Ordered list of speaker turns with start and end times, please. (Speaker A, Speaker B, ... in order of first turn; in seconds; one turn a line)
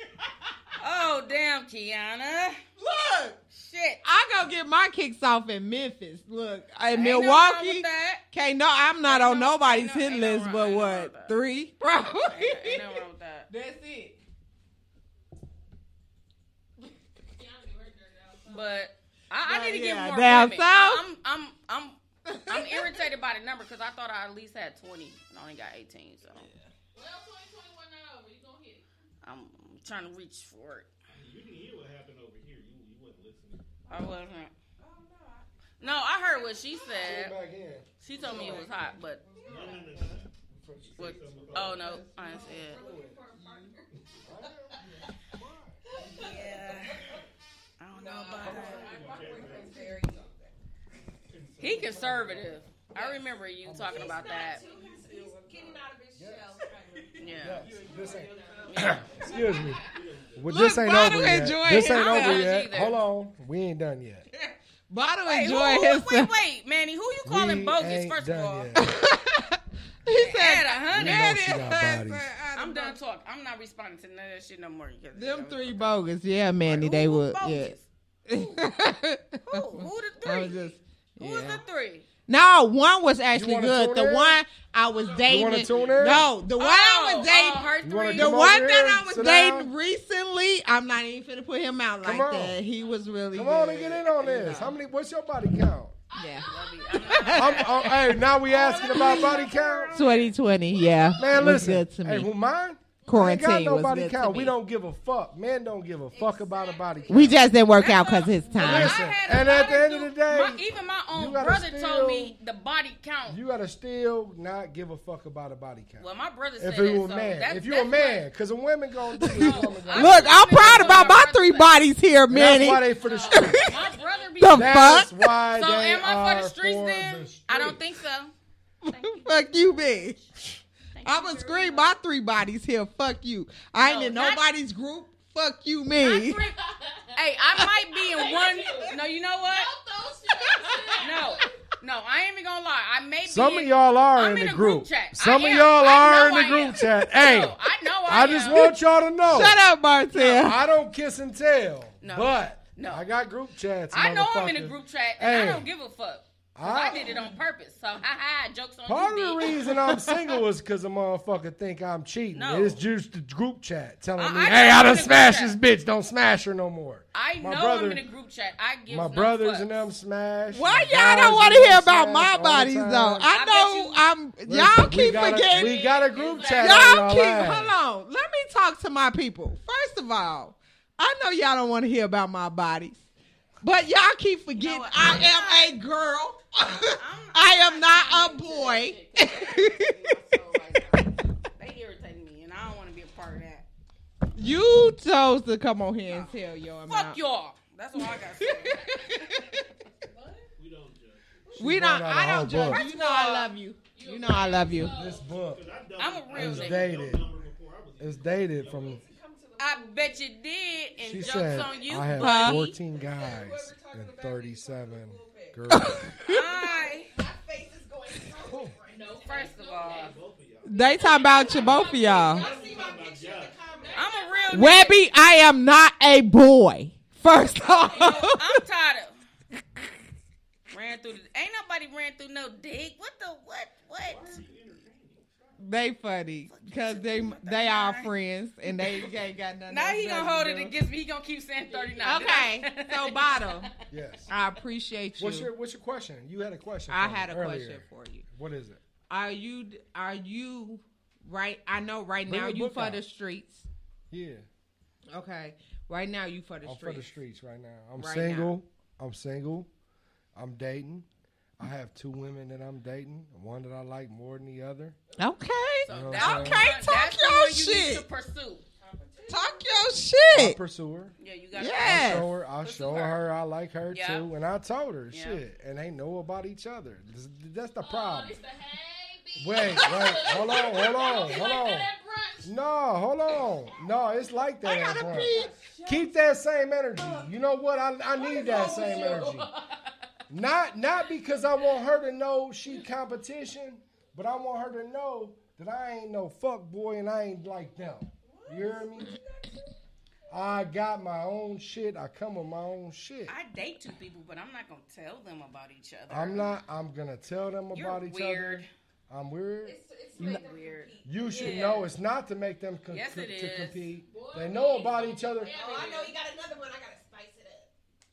Speaker A: 0.8-2.6
Speaker B: 2.8-3.4
Speaker A: 3.5-4.0
Speaker B: 4.0-14.2
Speaker A: 6.9-8.2
Speaker A: 9.0-11.3
Speaker A: 12.3-13.5
Speaker C: 17.3-18.8
Speaker A: 18.5-26.5
Speaker B: 19.4-21.0
Speaker B: 22.3-23.0
Speaker C: 26.9-28.9
Speaker A: 29.2-30.9
Speaker D: 31.1-33.7
Speaker A: 33.9-34.5
Speaker E: 34.8-35.5
Speaker A: 35.8-37.4
Speaker F: 37.0-39.0
Speaker A: 38.0-39.2
Speaker E: 38.2-40.1
Speaker D: 39.4-40.3
Speaker F: 40.5-41.8
Speaker D: 40.8-42.0
Speaker A: 41.0-42.8
Speaker B: 41.8-42.3
Speaker E: 42.2-43.9
Speaker C: 42.8-43.6
Speaker F: 44.2-45.8
Speaker E: 46.0-47.2
Speaker A: 46.1-47.1
Speaker A: 47.8-48.9
Speaker E: 47.9-50.5
Speaker F: 48.4-49.1
Speaker D: 48.4-49.9
Speaker D: 51.3-52.4
Speaker A: 51.6-54.6
Speaker F: 51.8-52.6
Speaker F: 53.6-54.5
Speaker E: 53.9-59.8
Speaker C: 54.7-55.1
Speaker F: 56.2-56.6
Speaker A: 57.2-57.6
Speaker F: 57.4-59.8
Speaker A: 58.6-59.0
Speaker D: 59.9-60.6
Speaker F: 60.4-64.3
Speaker B: 60.5-62.5
Speaker A: 61.7-63.0
Speaker B: 64.9-66.3
Speaker A: 65.3-68.7
Speaker F: 67.3-68.9
Speaker B: 68.8-73.0
Speaker A: 70.1-71.8
Speaker F: 70.9-72.2
Speaker A: 72.5-76.0
Speaker B: 75.2-77.7
Speaker A: 76.7-77.8
Speaker B: 78.3-81.6
Speaker A: 79.5-82.0
Speaker B: 82.3-94.8
Speaker F: 83.3-84.4
Speaker D: 85.0-86.3
Speaker F: 85.3-86.3
Speaker A: 86.6-88.5
Speaker F: 87.8-89.7
Speaker F: 92.0-92.6
Speaker C: 92.9-93.2
Speaker F: 93.3-96.0
Speaker B: 96.1-97.9
Speaker C: 96.2-97.5
Speaker A: 96.5-100.3
Speaker F: 97.3-99.9
Speaker C: 99.2-99.5
Speaker B: 99.9-102.3
Speaker C: 100.7-101.1
Speaker F: 101.2-107.4
Speaker B: 103.1-104.5
Speaker E: 106.1-107.4
Speaker B: 107.1-109.0
Speaker A: 107.7-113.4
Speaker F: 108.6-112.3
Speaker F: 113.3-121.1
Speaker A: 116.0-118.3
Speaker A: 119.2-121.8
Speaker B: 119.3-123.8
Speaker F: 122.3-123.7
Speaker A: 123.0-128.3
Speaker B: 124.4-125.1
Speaker F: 124.5-127.8
Speaker B: 128.8-130.2
Speaker A: 128.9-129.8
Speaker A: 131.0-131.8
Speaker B: 131.0-136.5
Speaker A: 133.8-134.5
Speaker C: 136.0-137.2
Speaker A: 137.2-139.7
Speaker C: 138.1-141.5
Speaker A: 141.0-148.7
Speaker F: 143.2-149.6
Speaker B: 149.2-150.6
Speaker F: 150.3-155.7
Speaker A: 152.0-153.0
Speaker A: 153.9-159.5
Speaker F: 156.6-157.2
Speaker F: 158.9-168.1
Speaker B: 159.7-160.0
Speaker A: 162.3-162.8
Speaker A: 164.2-165.6
Speaker A: 167.1-169.9
Speaker F: 168.9-173.3
Speaker B: 170.5-175.8
Speaker A: 173.3-174.0
Speaker F: 174.5-177.7
Speaker A: 175.3-177.0
Speaker B: 176.6-183.0
Speaker B: 183.6-190.2
Speaker A: 184.6-185.8
Speaker A: 186.9-193.7
Speaker B: 194.4-197.2
Speaker A: 196.1-196.3
Speaker A: 196.9-199.4
Speaker B: 198.0-199.6
Speaker E: 200.1-200.5
Speaker D: 200.6-201.6
Speaker F: 201.6-202.9
Speaker B: 201.6-205.0
Speaker A: 202.7-203.5
Speaker C: 203.9-205.3
Speaker F: 204.9-205.7
Speaker D: 205.0-209.0
Speaker A: 206.0-207.1
Speaker F: 206.3-207.3
Speaker F: 208.0-209.0
Speaker E: 208.8-210.2
Speaker A: 209.6-212.8
Speaker F: 211.0-216.2
Speaker E: 211.5-211.8
Speaker B: 212.2-212.7
Speaker E: 212.9-215.7
Speaker B: 215.7-216.4
Speaker A: 216.2-217.1
Speaker E: 216.4-219.6
Speaker F: 218.4-218.8
Speaker C: 218.9-220.2
Speaker A: 219.2-220.1
Speaker D: 219.8-223.9
Speaker B: 220.7-222.4
Speaker C: 220.8-222.8
Speaker E: 221.8-224.4
Speaker C: 223.8-224.7
Speaker A: 223.9-225.0
Speaker B: 224.5-228.6
Speaker A: 227.9-229.2
Speaker A: 230.7-234.4
Speaker D: 234.1-235.6
Speaker B: 235.6-240.7
Speaker A: 236.5-238.1
Speaker A: 239.7-243.7
Speaker B: 242.0-243.7
Speaker F: 243.9-244.3
Speaker B: 244.3-245.5
Speaker F: 245.2-248.8
Speaker B: 246.9-248.2
Speaker B: 249.1-253.7
Speaker F: 252.3-253.0
Speaker F: 254.1-254.5
Speaker B: 255.1-257.1
Speaker F: 256.6-259.7
Speaker B: 258.0-258.5
Speaker F: 260.4-261.1
Speaker F: 261.6-265.0
Speaker B: 265.2-268.0
Speaker A: 265.8-268.6
Speaker F: 265.9-266.6
Speaker E: 268.8-269.7
Speaker B: 269.3-270.6
Speaker F: 270.3-271.1
Speaker A: 271.2-273.2
Speaker B: 271.6-272.3
Speaker F: 271.7-278.4
Speaker A: 273.9-274.3
Speaker A: 275.1-275.4
Speaker C: 277.8-282.5
Speaker F: 279.4-281.9
Speaker F: 282.4-289.5
Speaker E: 284.9-286.0
Speaker C: 284.9-285.5
Speaker C: 288.3-289.3
Speaker E: 288.5-289.3
Speaker F: 290.3-299.2
Speaker E: 298.2-299.7
Speaker F: 300.3-303.3
Speaker A: 303.3-306.6
Speaker F: 306.1-309.8
Speaker A: 307.7-308.7
Speaker E: 309.6-311.8
Speaker A: 310.2-311.9
Speaker F: 311.1-315.6
Speaker A: 312.9-313.8
Speaker C: 314.1-316.1
Speaker E: 314.2-317.7
Speaker A: 315.7-316.1